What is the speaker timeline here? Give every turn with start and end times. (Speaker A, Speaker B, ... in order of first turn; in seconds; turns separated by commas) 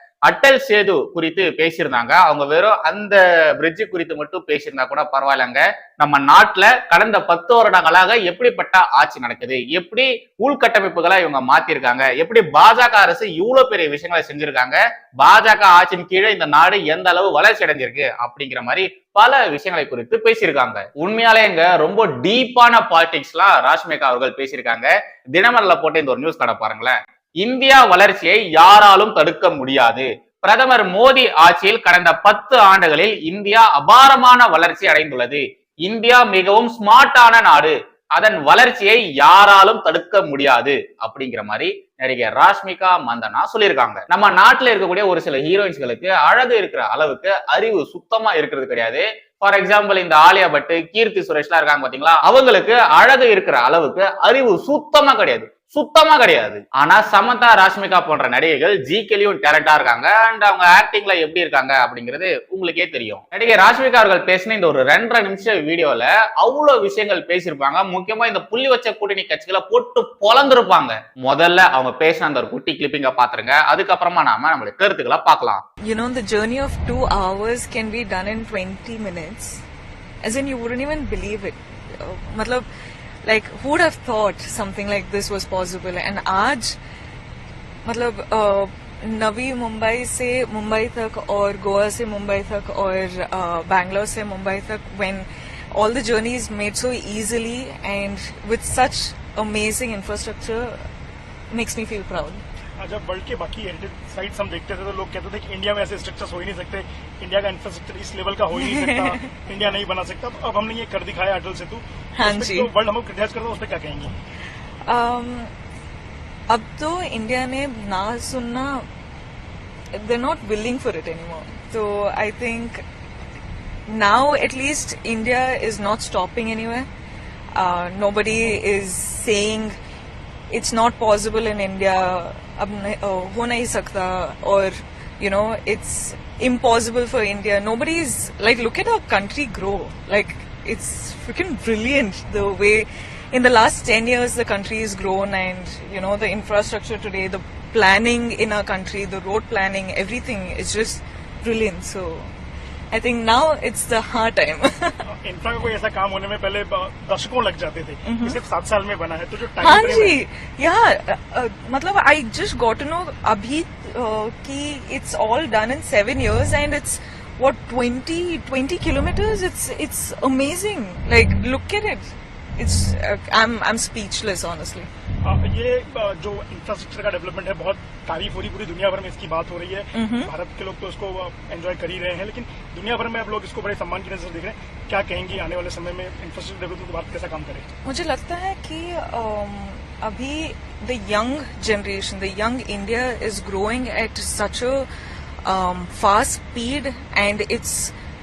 Speaker A: 0.3-75.6, Speaker B: 75.8-79.6, Speaker B: 80.2-82.7, Speaker B: 83.2-86.8, Speaker B: 87.8-100.9, Speaker B: 101.5-102.4, Speaker C: 102.8-114.1, Speaker B: 108.6-109.2, Speaker B: 112.2-112.7, Speaker B: 114.8-115.5, Speaker B: 116.5-118.8, Speaker B: 119.9-122.8, Speaker B: 123.9-126.9, Speaker B: 127.5-129.8, Speaker B: 130.5-152.3, Speaker B: 152.9-155.0, Speaker C: 155.2-160.2, Speaker B: 158.1-158.4, Speaker B: 159.6-174.9, Speaker C: 175.2-187.7, Speaker B: 179.9-180.3, Speaker B: 187.8-194.9, Speaker B: 195.4-197.9